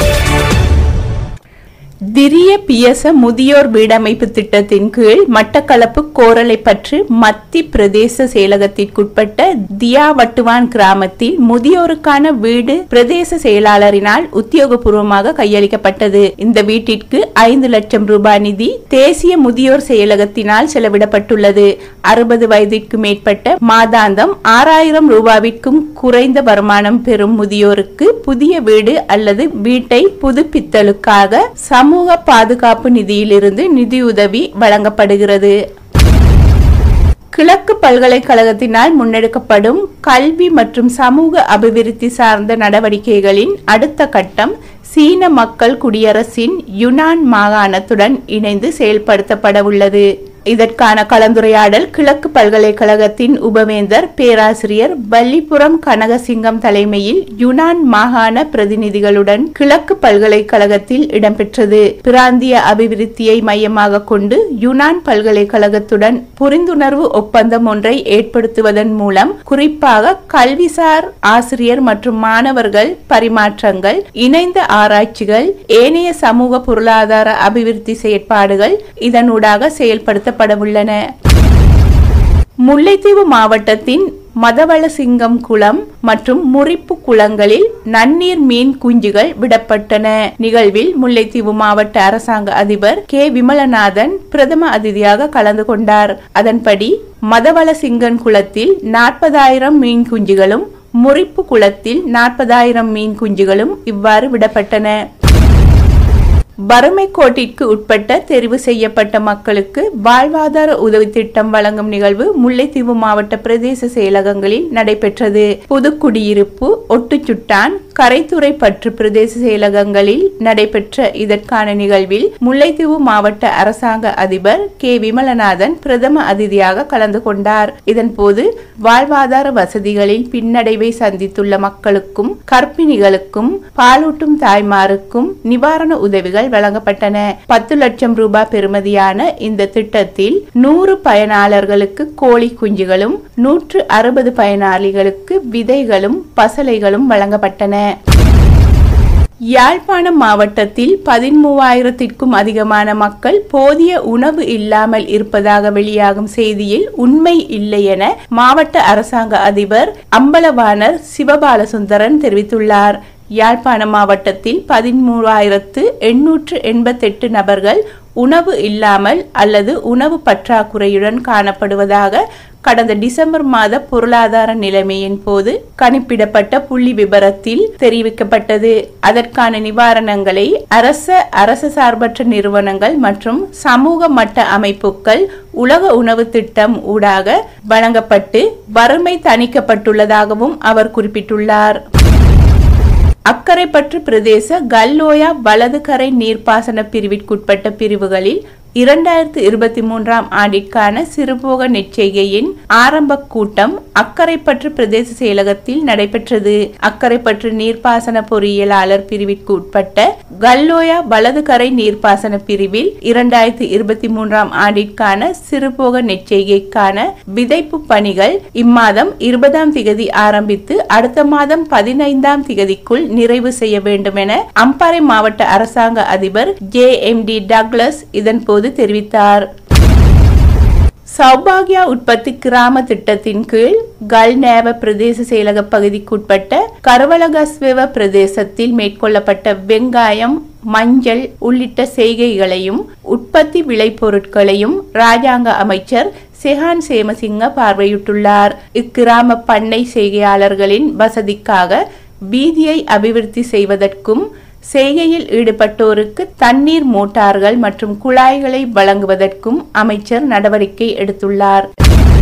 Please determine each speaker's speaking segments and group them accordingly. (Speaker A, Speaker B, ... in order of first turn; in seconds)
Speaker A: 2.1-35.5, 37.3-81.0, 82.7-105.0, 106.7-147.8, 149.6-191.8, 193.3-229.4, 231.2-251.8, 252.3-254.2, 254.7-261.6